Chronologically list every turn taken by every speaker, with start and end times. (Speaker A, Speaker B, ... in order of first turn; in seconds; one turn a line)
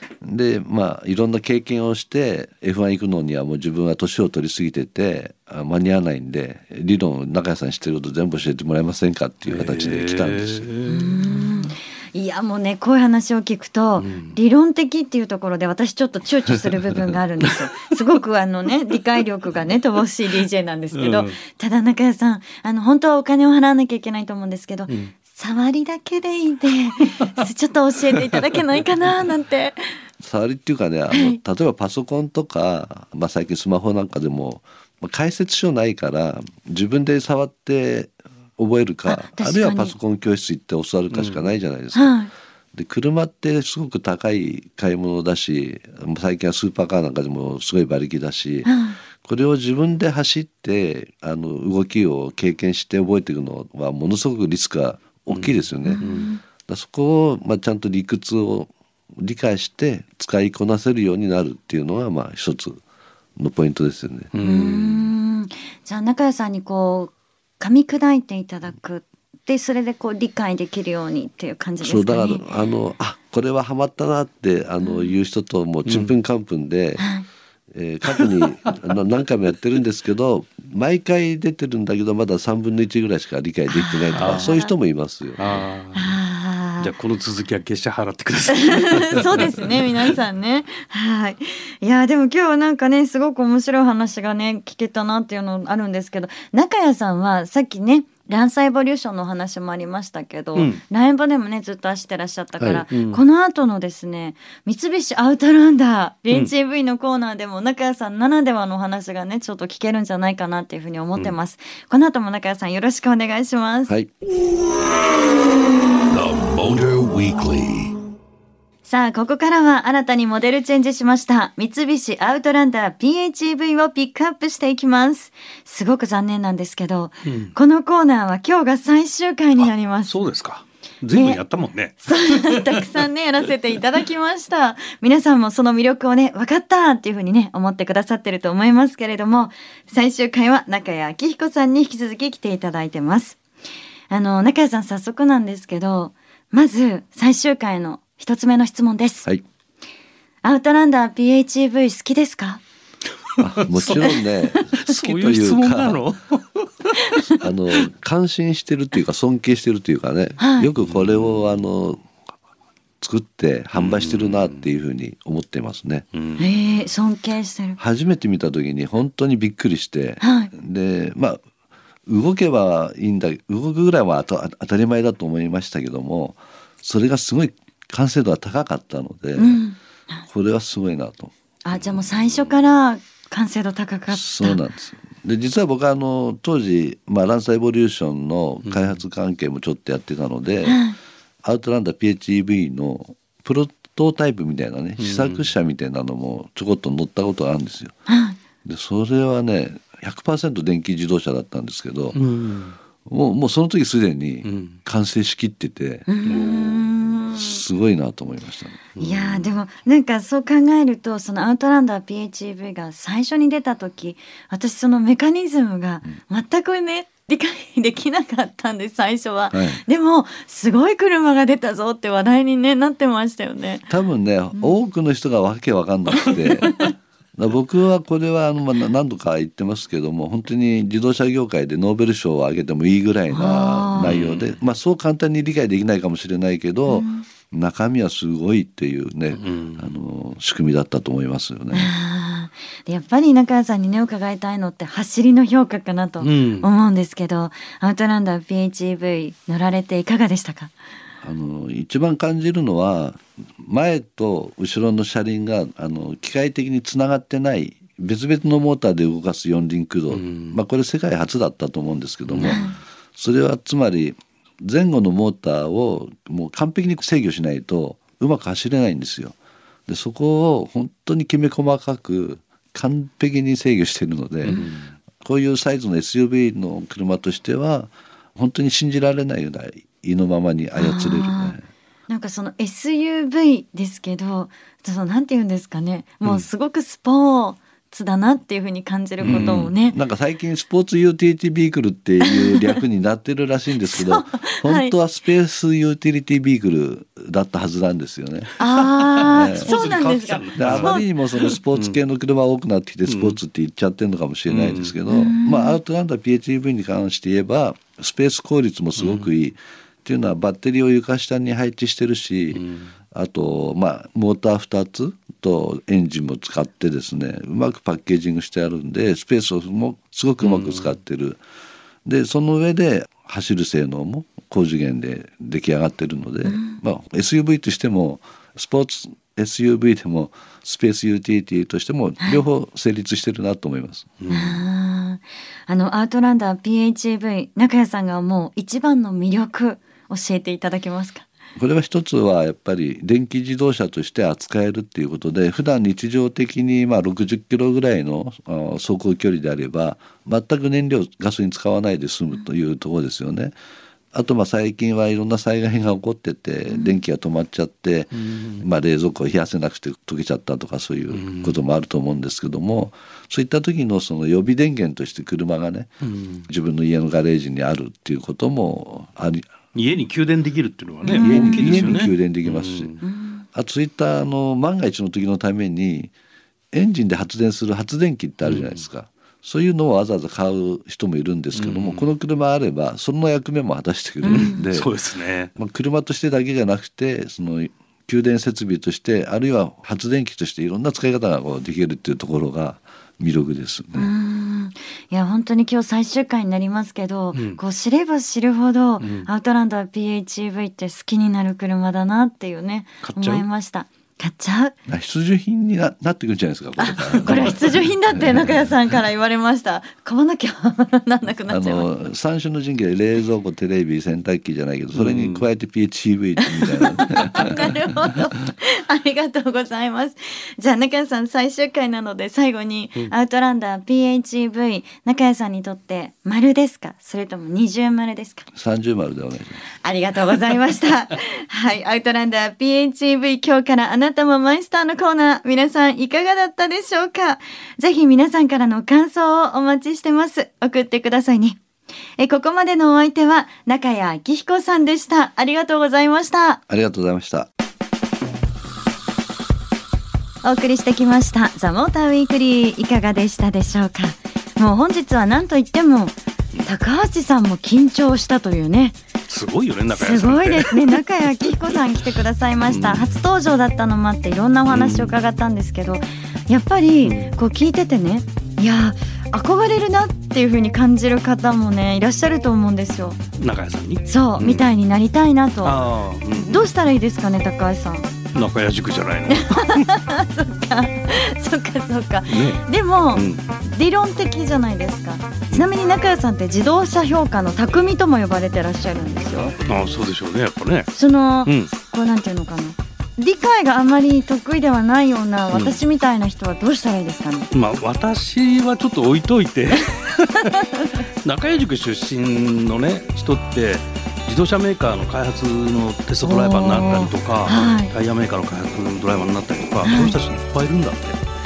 Speaker A: 0.2-10.7
Speaker B: 9.4-11.7
Speaker C: 10.8-30.0
Speaker B: 14.0-14.4
Speaker B: 20.9-21.4
Speaker A: 30.2-42.2
Speaker C: 31.1-31.4
Speaker C: 39.1-40.0
Speaker B: 41.1-41.5
Speaker C: 41.9-42.3
Speaker A: 42.7-62.8
Speaker C: 48.6-49.0
Speaker B: 55.3-56.3
Speaker C: 55.9-56.4
Speaker A: 63.4-64.3
Speaker B: 64.3-65.0
Speaker C: 64.4-72.5
Speaker A: 71.8-77.1
Speaker C: 74.8-75.1
Speaker B: 75.8-76.1
Speaker C: 77.0-77.3
Speaker A: 77.7-85.7
Speaker B: 78.1-78.5
Speaker C: 83.7-84.7
Speaker B: 84.2-84.5
Speaker B: 85.4-86.2
Speaker C: 85.9-86.9
Speaker B: 86.8-90.1
Speaker C: 88.7-113.9
Speaker B: 100.5-100.8
Speaker A: 102.6-102.9
Speaker B: 102.9-103.2
Speaker B: 116.1-117.9
Speaker C: 118.8-130.2
Speaker B: 127.2-127.5
Speaker B: 129.6-132.8
Speaker C: 131.1-131.4
Speaker C: 132.0-143.4
Speaker C: 144.1-149.3
Speaker C: 150.4-152.6
Speaker A: 153.4-156.1
Speaker B: 153.6-154.2
Speaker B: 154.8-157.9
Speaker A: 157.4-162.1
Speaker C: 160.4-160.7
Speaker B: 160.8-161.4
Speaker A: 163.0-166.1
Speaker B: 163.7-164.7
Speaker B: 166.1-166.4
Speaker C: 166.4-167.8
Speaker A: 167.8-171.4
Speaker C: 170.2-170.5
Speaker A: 172.1-179.6
Speaker C: 179.4-180.2
Speaker A: 180.3-181.3
Speaker C: 181.6-184.6
Speaker A: 184.1-190.8
Speaker B: 188.7-189.0
Speaker C: 190.6-191.0
Speaker A: 191.4-197.9
Speaker B: 195.0-195.5
Speaker C: 198.1-198.4
Speaker A: 198.6-202.2
Speaker B: 202.1-202.8
Speaker A: 203.1-206.1
Speaker B: 204.4-204.8
Speaker C: 206.1-207.6
Speaker B: 206.3-206.9
Speaker A: 207.3-209.0
Speaker B: 209.0-209.5
Speaker C: 209.0-223.9
Speaker A: 219.5-219.8
Speaker A: 223.9-241.9
Speaker C: 226.2-226.9
Speaker C: 233.3-234.2
Speaker B: 234.0-234.6
Speaker C: 236.9-237.3
Speaker B: 239.3-239.9
Speaker C: 241.7-250.7
Speaker B: 246.2-246.7
Speaker A: 251.2-269.4
Speaker B: 260.1-260.6
Speaker B: 262.3-262.6
Speaker C: 262.4-262.8
Speaker A: 269.9-274.7
Speaker B: 274.4-274.9
Speaker A: 275.2-281.6
Speaker C: 280.8-290.0
Speaker B: 289.2-289.7
Speaker A: 289.2-298.5
Speaker C: 292.2-292.8
Speaker C: 293.8-294.9
Speaker C: 298.6-301.0
Speaker B: 298.7-302.0
Speaker A: 299.2-321.4
Speaker B: 303.1-303.4
Speaker B: 304.5-305.0
Speaker C: 305.1-305.8
Speaker B: 309.0-309.3
Speaker B: 312.5-312.9
Speaker B: 320.4-320.9
Speaker A: 322.1-334.1
Speaker C: 326.4-326.8
Speaker B: 334.2-334.6
Speaker C: 334.3-341.3
Speaker A: 341.6-353.6
Speaker A: 354.1-369.4
Speaker C: 356.7-357.0
Speaker B: 358.1-358.6
Speaker B: 361.1-361.6
Speaker B: 366.0-366.5
Speaker B: 369.7-373.0
Speaker C: 371.0-372.1
Speaker A: 371.1-373.0
Speaker C: 373.0-373.4
Speaker A: 373.5-376.1
Speaker A: 376.7-384.9
Speaker B: 378.4-378.8
Speaker B: 381.5-382.1
Speaker C: 384.2-384.6
Speaker B: 384.3-385.5
Speaker A: 385.6-394.1
Speaker C: 393.9-404.7
Speaker B: 397.3-397.6
Speaker B: 399.0-399.3
Speaker B: 403.0-403.5
Speaker A: 404.9-408.7
Speaker C: 406.8-411.9
Speaker B: 407.1-407.6
Speaker A: 411.5-418.1
Speaker B: 414.9-415.4
Speaker C: 416.4-428.5
Speaker A: 428.5-429.6
Speaker C: 429.8-441.6
Speaker C: 442.2-446.6
Speaker A: 446.7-447.5
Speaker C: 450.4-459.0
Speaker B: 459.3-461.8
Speaker C: 459.9-473.2
Speaker B: 462.7-463.1
Speaker B: 464.7-465.1
Speaker B: 467.0-467.3
Speaker B: 473.4-474.7
Speaker C: 474.1-475.8
Speaker B: 475.6-476.7
Speaker C: 476.4-478.1
Speaker B: 478.3-479.9
Speaker C: 479.3-489.6
Speaker B: 482.3-483.4
Speaker B: 489.6-490.9
Speaker C: 490.9-497.5
Speaker B: 491.5-491.7
Speaker B: 495.5-495.8
Speaker B: 497.5-500.6
Speaker B: 501.2-511.2
Speaker C: 506.2-507.9
Speaker C: 509.8-510.2